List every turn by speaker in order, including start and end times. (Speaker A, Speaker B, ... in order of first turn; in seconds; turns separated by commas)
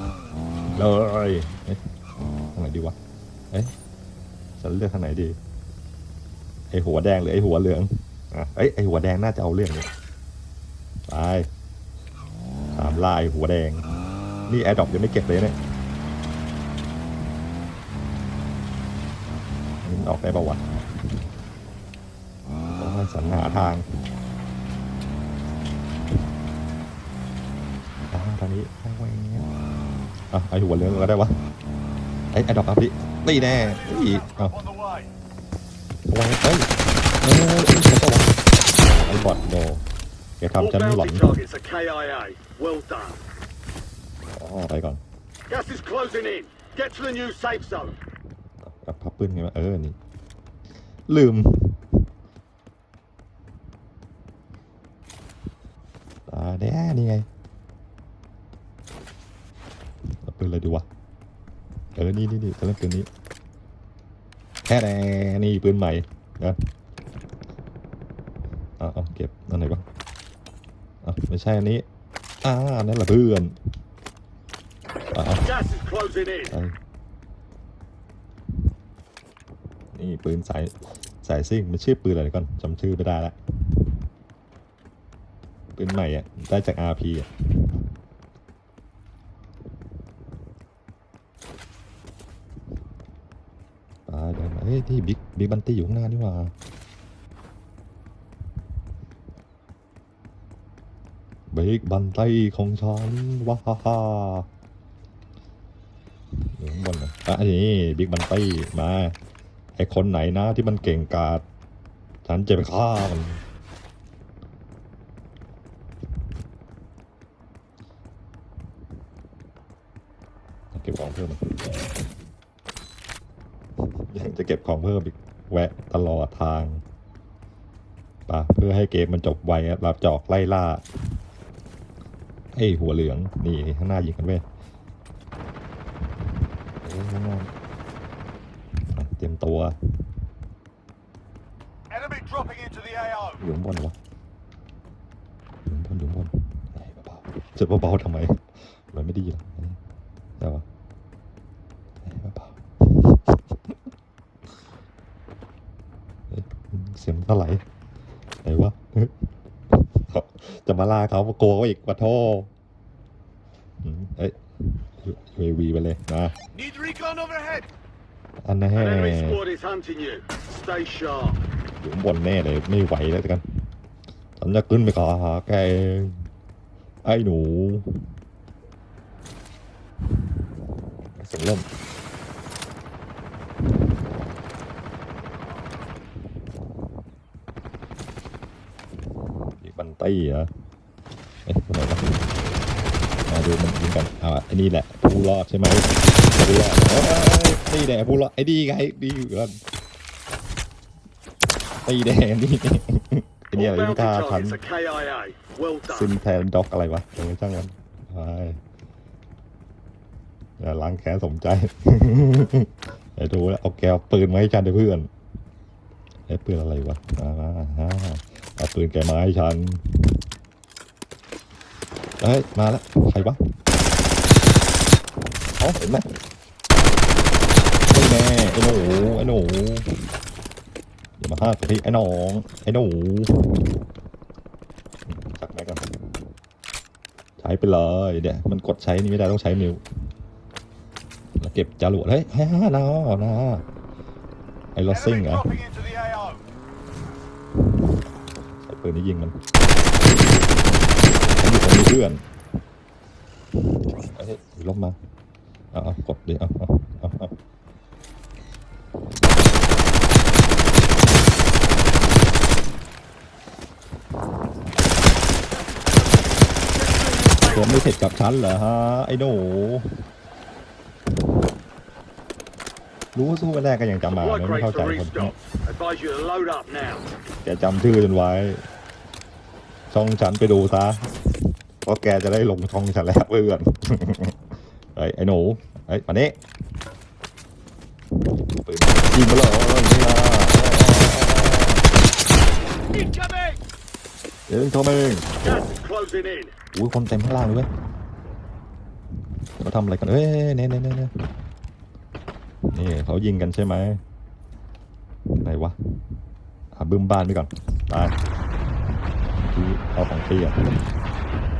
Speaker A: 0.8-1.8, Speaker A: 2.5-2.9, Speaker A: 4.6-5.4, Speaker A: 6.7-9.9, Speaker A: 11.1-11.5, Speaker A: 12.7-13.9, Speaker A: 14.5-15.6, Speaker A: 19.8-20.6, Speaker A: 22.8-23.9, Speaker A: 28.1-29.5, Speaker A: 30.3-31.4, Speaker A: 32.3-34.6, Speaker B: 33.9-35.1, Speaker A: 36.1-36.7, Speaker A: 37.2-39.8, Speaker A: 40.4-41.3, Speaker B: 40.6-43.2, Speaker A: 44.3-45.0, Speaker B: 45.5-48.0, Speaker A: 48.6-50.0, Speaker A: 51.1-51.8, Speaker A: 56.3-57.2, Speaker A: 60.2-60.8, Speaker A: 62.0-63.1, Speaker A: 64.6-66.6, Speaker A: 68.8-69.8, Speaker A: 71.0-71.8, Speaker A: 72.4-73.5, Speaker A: 75.1-75.5, Speaker B: 75.4-76.5, Speaker A: 76.5-76.7, Speaker A: 79.9-83.4, Speaker A: 85.8-87.3, Speaker A: 94.1-96.5, Speaker A: 101.5-104.5, Speaker A: 106.6-109.2, Speaker A: 109.8-111.4, Speaker A: 112.2-113.4, Speaker A: 120.7-121.5, Speaker A: 124.1-126.8, Speaker A: 128.3-130.8, Speaker A: 132.5-134.4, Speaker A: 136.8-137.5, Speaker A: 138.9-139.8, Speaker B: 141.9-143.4, Speaker A: 143.4-143.9, Speaker A: 145.7-149.8, Speaker A: 152.0-153.6, Speaker A: 156.3-157.6, Speaker A: 158.4-162.5, Speaker A: 163.8-166.3, Speaker B: 166.6-167.7, Speaker A: 168.4-169.4, Speaker B: 168.7-171.4, Speaker A: 171.8-173.4, Speaker A: 174.4-176.3, Speaker A: 177.0-177.9, Speaker A: 181.2-181.7, Speaker A: 189.6-190.5, Speaker A: 191.4-192.2, Speaker A: 193.3-199.6, Speaker A: 201.8-204.6, Speaker B: 203.5-206.1, Speaker A: 205.9-208.6, Speaker A: 210.6-215.1, Speaker A: 216.3-220.2, Speaker A: 222.2-223.4, Speaker A: 225.6-226.1, Speaker A: 227.9-230.1, Speaker A: 231.2-233.6, Speaker A: 235.1-235.9, Speaker A: 237.4-239.8, Speaker A: 241.4-243.6, Speaker A: 244.7-245.5, Speaker B: 245.1-246.4, Speaker A: 248.2-249.3, Speaker A: 251.3-252.2, Speaker A: 254.1-255.0, Speaker A: 255.7-257.3, Speaker B: 265.5-267.7, Speaker A: 267.5-270.0, Speaker A: 273.1-275.3, Speaker B: 274.1-277.1, Speaker A: 277.4-278.6, Speaker A: 279.9-281.1, Speaker A: 281.8-284.3, Speaker A: 284.9-286.4, Speaker A: 288.5-291.8, Speaker B: 292.9-293.6, Speaker A: 294.5-295.3, Speaker B: 295.4-296.5, Speaker A: 296.7-297.7, Speaker A: 299.6-301.1, Speaker A: 302.7-304.0, Speaker A: 305.4-305.8, Speaker A: 306.7-308.1, Speaker A: 309.5-310.7